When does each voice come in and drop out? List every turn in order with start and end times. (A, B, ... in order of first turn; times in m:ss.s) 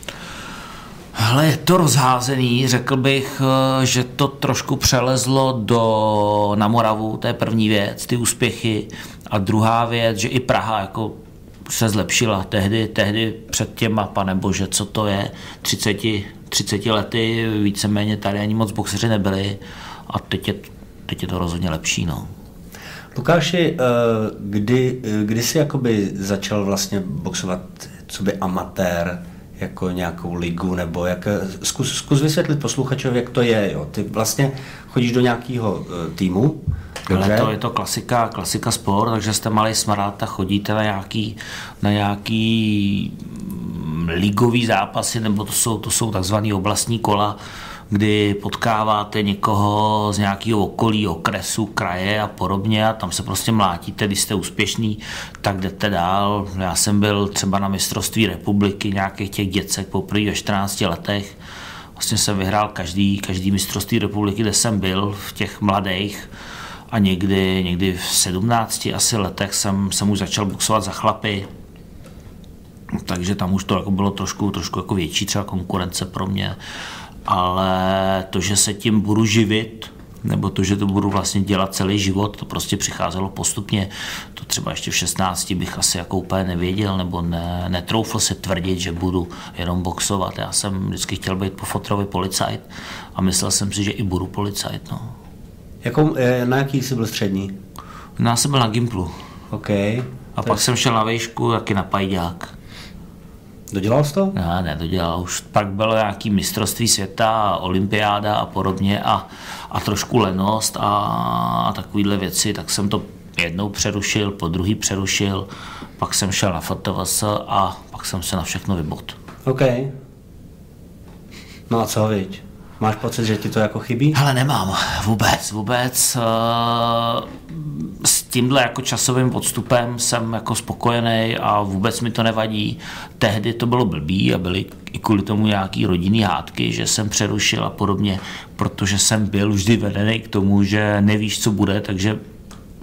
0:01.1-0:22.3 A
0:23.1-0:37.5 B
0:37.1-0:47.4 A
0:47.9-1:01.4 A
1:02.0-1:06.3 A
1:06.9-1:11.5 A
1:13.0-1:16.6 A
1:17.3-1:35.1 A
1:35.8-1:37.6 B
1:38.2-1:39.1 A
1:39.5-1:40.6 B
1:40.4-1:42.5 A
1:43.7-1:44.3 B
1:44.3-1:55.5 A
1:56.0-1:59.2 A
1:59.4-1:59.9 B
2:01.7-2:04.2 B
2:04.1-2:22.2 A